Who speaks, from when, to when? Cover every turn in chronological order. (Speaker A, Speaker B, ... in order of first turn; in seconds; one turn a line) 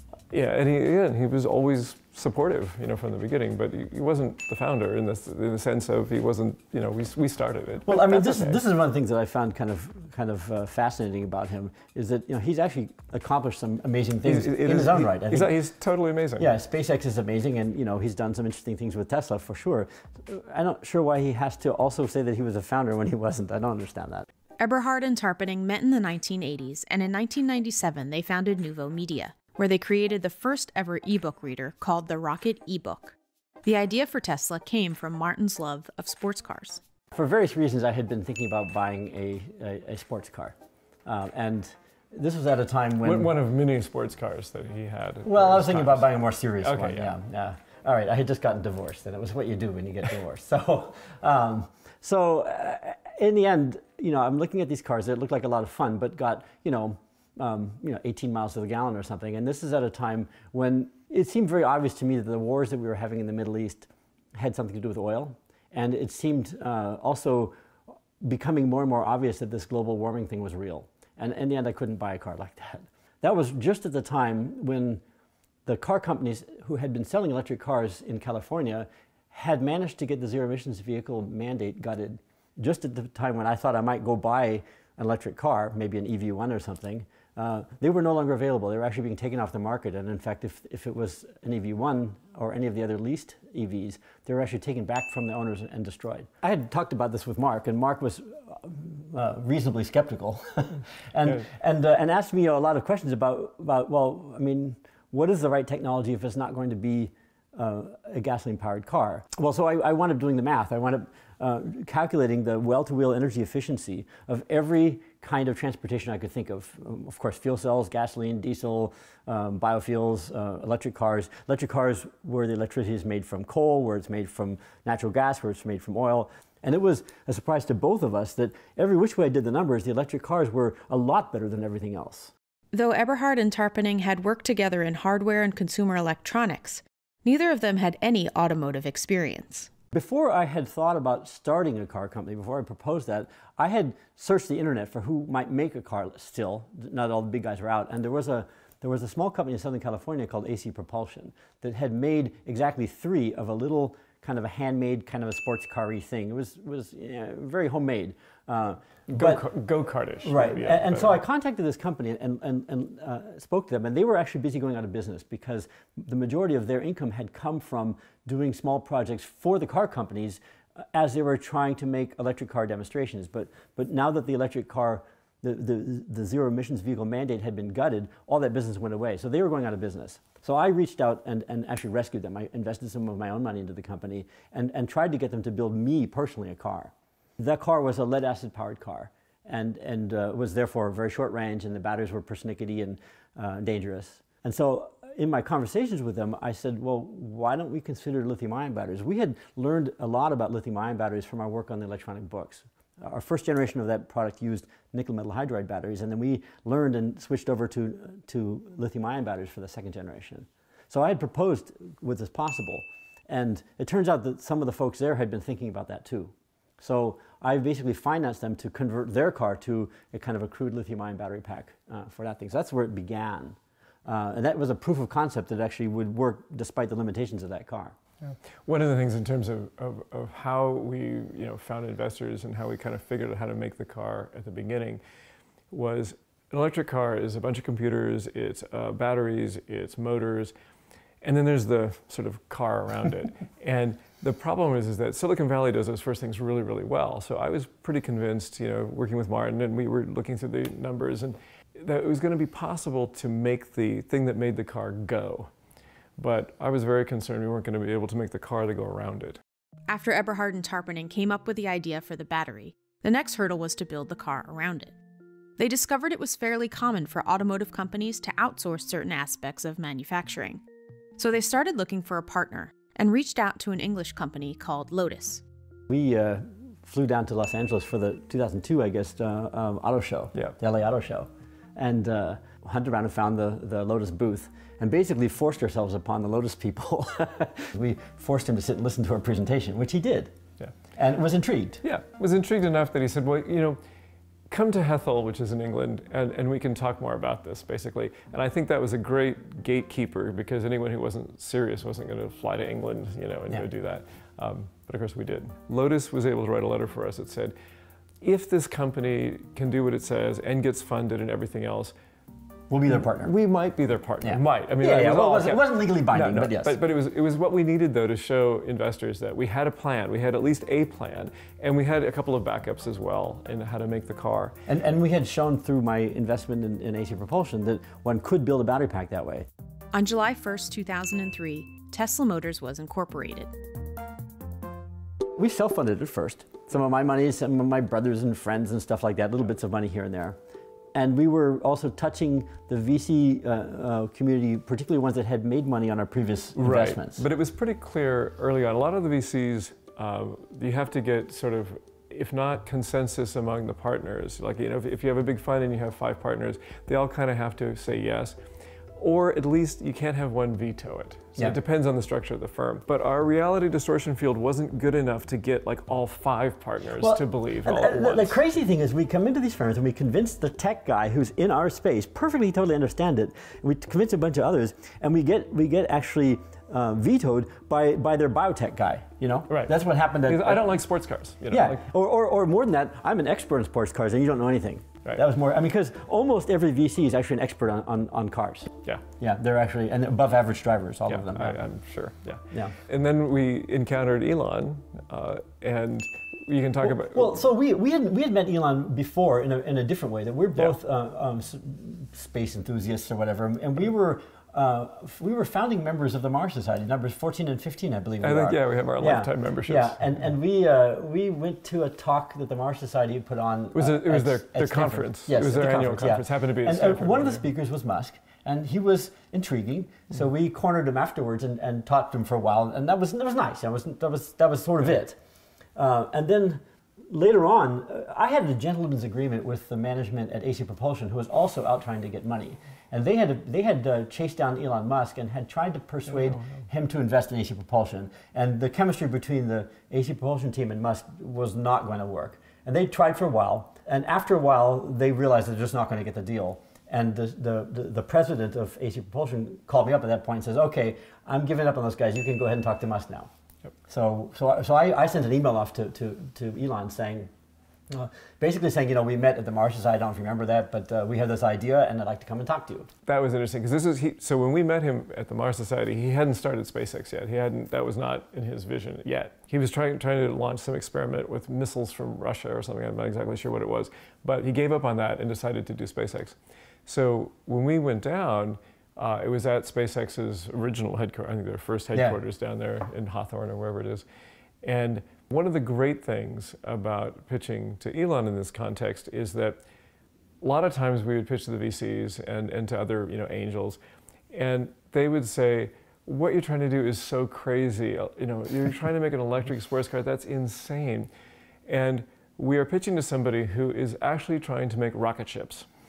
Speaker A: 0.3-8.6
Speaker B: 7.9-15.5
Speaker A: 14.2-16.5
Speaker B: 16.4-24.3
Speaker C: 24.6-36.8
Speaker B: 37.1-43.3
Speaker A: 43.0-46.1
Speaker B: 45.2-67.5
Speaker A: 46.6-47.1
Speaker B: 68.2-75.0
Speaker B: 75.7-132.3
Speaker C: 132.7-139.7
Speaker B: 139.9-159.5
Speaker A: 159.1-161.2
Speaker B: 160.2-228.0
Speaker A: 228.2-235.0
Speaker A: 235.7-240.5
Speaker A: 241.2-255.5
Speaker A: 256.2-259.4
Speaker C: 259.9-264.9
Speaker C: 265.6-270.6
Speaker C: 271.2-275.4
Speaker B: 275.9-290.3
Speaker B: 290.9-291.8
Speaker A: 291.8-293.8
Speaker A: 294.5-307.6
Speaker A: 308.2-311.9
Speaker B: 312.7-313.3
Speaker A: 312.9-324.6
Speaker B: 314.2-316.8
Speaker B: 324.7-329.5
Speaker C: 329.9-333.5
Speaker B: 335.4-340.4
Speaker B: 340.9-347.2
Speaker A: 346.6-358.4
Speaker A: 359.0-368.4
Speaker B: 367.0-380.8
Speaker A: 379.5-381.9
Speaker B: 381.5-391.6
Speaker A: 391.1-397.4
Speaker B: 396.8-425.2
Speaker A: 408.2-410.0
Speaker A: 413.7-417.4
Speaker B: 425.8-453.3
Speaker A: 436.3-436.6
Speaker B: 453.9-457.3
Speaker B: 457.9-462.9
Speaker A: 463.1-484.1
Speaker A: 484.6-489.6
Speaker A: 490.4-493.8
Speaker A: 494.3-501.1
Speaker A: 501.7-505.7